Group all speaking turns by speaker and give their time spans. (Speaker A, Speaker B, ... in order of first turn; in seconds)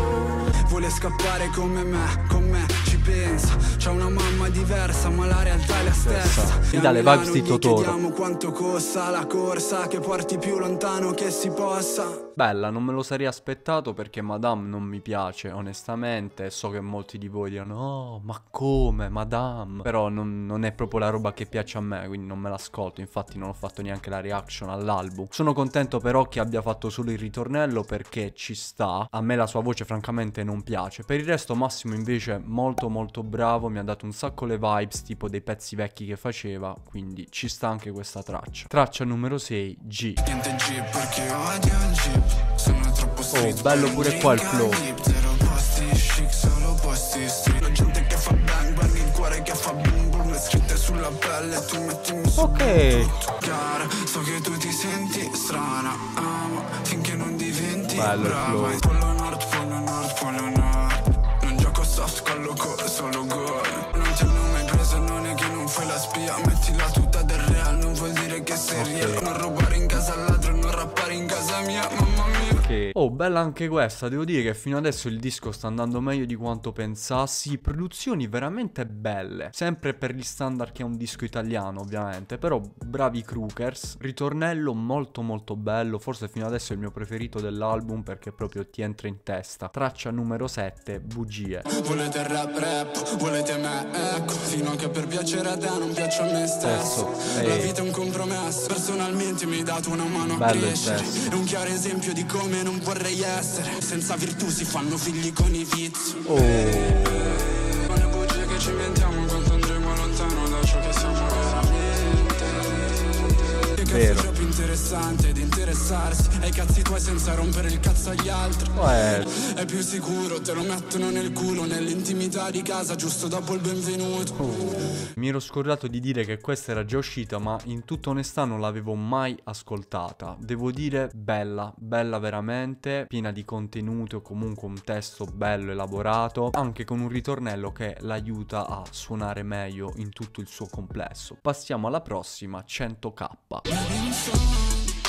Speaker A: 0.6-12.2, 40.2-72.7, 91.7-124.8, 143.7-144.9
Speaker B: 5.9-8.0, 12.4-40.2, 43.3-44.9, 52.4-53.1, 57.9-58.8, 68.7-69.3, 72.5-91.7, 96.6-97.8, 100.2-101.2, 106.2-107.5, 113.8-114.3, 118.7-119.3, 124.4-143.7